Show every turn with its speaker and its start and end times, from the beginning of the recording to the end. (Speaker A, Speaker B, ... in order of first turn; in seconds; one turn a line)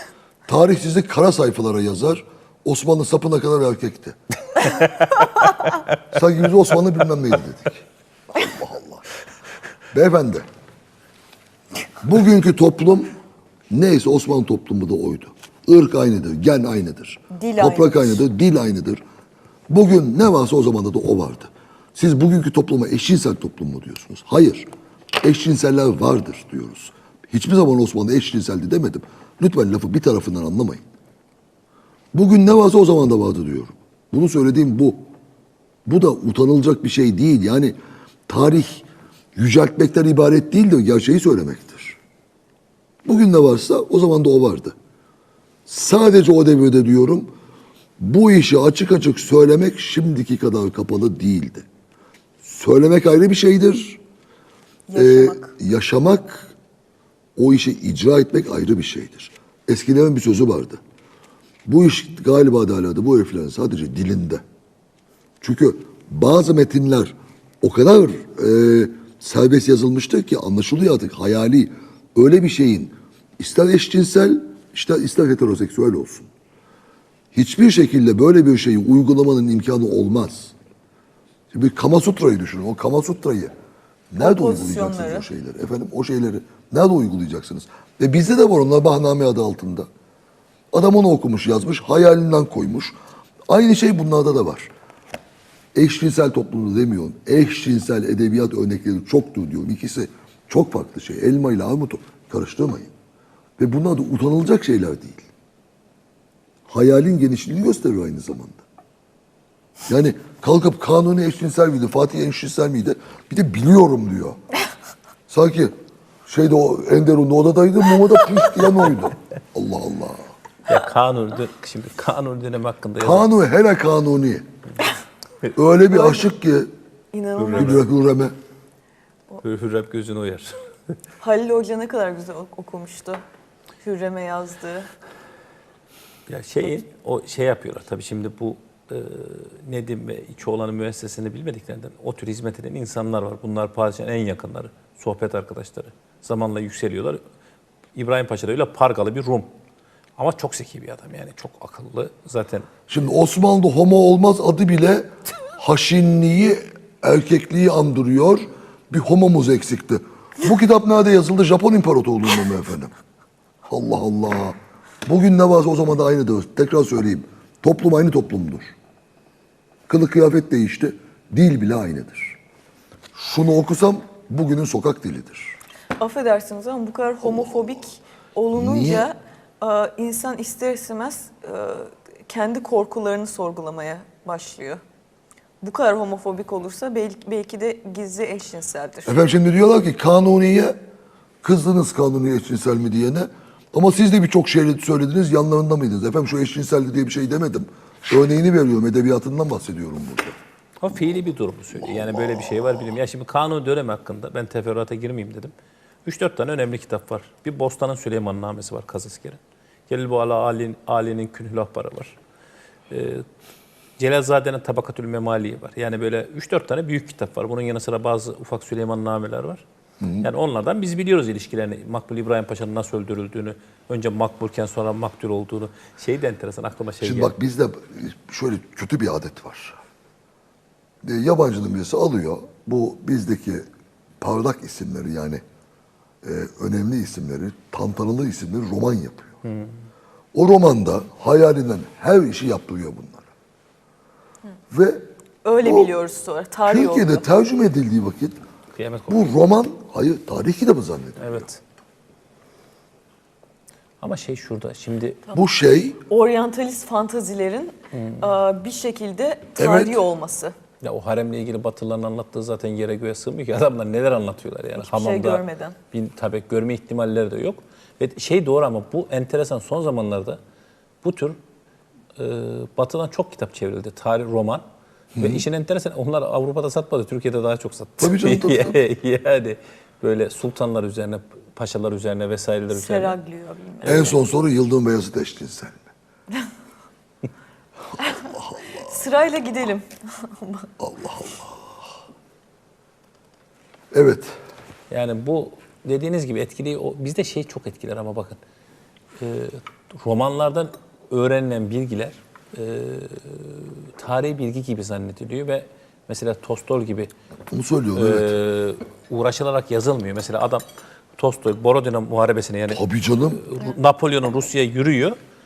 Speaker A: 0.5-4.2
Speaker B: 4.6-5.9
Speaker A: 6.1-9.0
Speaker A: 9.9-10.5
Speaker A: 12.0-13.1
Speaker A: 13.7-19.0
Speaker C: 17.3-18.2
Speaker A: 19.7-24.6
Speaker A: 25.2-30.8
Speaker A: 32.1-35.0
Speaker A: 35.9-37.8
Speaker A: 38.3-38.8
Speaker A: 39.4-42.0
Speaker A: 43.0-44.7
Speaker A: 45.6-47.3
Speaker A: 48.0-51.6
Speaker A: 52.4-54.0
Speaker C: 54.9-55.5
Speaker A: 54.9-56.5
Speaker A: 57.4-60.8
Speaker A: 61.6-64.4
Speaker A: 65.4-76.3
Speaker A: 77.3-80.5
Speaker A: 81.5-83.5
Speaker A: 84.1-89.9
Speaker C: 84.2-85.3
Speaker A: 90.7-93.0
Speaker A: 93.5-94.7
Speaker A: 95.7-102.9
Speaker A: 103.6-105.3
Speaker A: 106.7-108.6
Speaker A: 109.9-114.4
Speaker A: 115.3-115.7
Speaker A: 116.3-120.3
Speaker B: 120.7-123.3
Speaker A: 123.0-124.4
Speaker A: 125.5-126.7
Speaker C: 125.9-126.3
Speaker C: 127.1-127.7
Speaker B: 127.4-127.8
Speaker A: 127.5-128.3
Speaker B: 129.4-130.6
Speaker C: 131.2-133.2
Speaker C: 133.8-134.9
Speaker B: 136.3-147.2
Speaker B: 147.9-149.5
Speaker B: 150.2-152.7
Speaker A: 152.9-162.9
Speaker A: 163.7-168.7
Speaker A: 169.9-172.4
Speaker A: 173.1-175.5
Speaker C: 175.9-184.8
Speaker A: 178.5-179.1
Speaker C: 185.6-189.1
Speaker A: 189.0-190.8
Speaker A: 191.4-200.4
Speaker B: 200.8-205.5
Speaker A: 201.9-202.5
Speaker B: 206.0-212.1
Speaker B: 212.9-213.2
Speaker B: 214.0-219.6
Speaker A: 220.0-220.3
Speaker B: 220.2-227.3
Speaker A: 227.0-229.8
Speaker A: 231.0-233.7
Speaker A: 234.2-235.4
Speaker A: 236.2-239.3
Speaker B: 239.4-239.7
Speaker A: 240.3-243.3
Speaker A: 244.7-245.1
Speaker C: 245.4-247.2
Speaker A: 245.6-245.9
Speaker A: 246.7-248.4
Speaker B: 248.7-249.3
Speaker A: 249.1-251.4
Speaker B: 251.2-251.6
Speaker B: 254.0-255.3
Speaker A: 255.3-256.0
Speaker C: 256.1-260.5
Speaker B: 257.9-258.4
Speaker A: 259.6-260.0
Speaker B: 260.8-270.4
Speaker C: 264.7-265.8
Speaker B: 271.0-271.4
Speaker B: 272.1-274.6
Speaker A: 275.1-275.4
Speaker B: 275.2-283.2
Speaker A: 278.0-278.8
Speaker C: 282.7-284.2
Speaker A: 283.8-285.8
Speaker C: 288.0-290.7
Speaker A: 288.3-288.9
Speaker A: 290.8-291.7
Speaker A: 293.9-294.3
Speaker B: 294.9-298.4
Speaker B: 299.2-307.1
Speaker A: 307.5-308.3
Speaker B: 307.9-310.6
Speaker B: 311.2-315.1
Speaker A: 312.7-313.4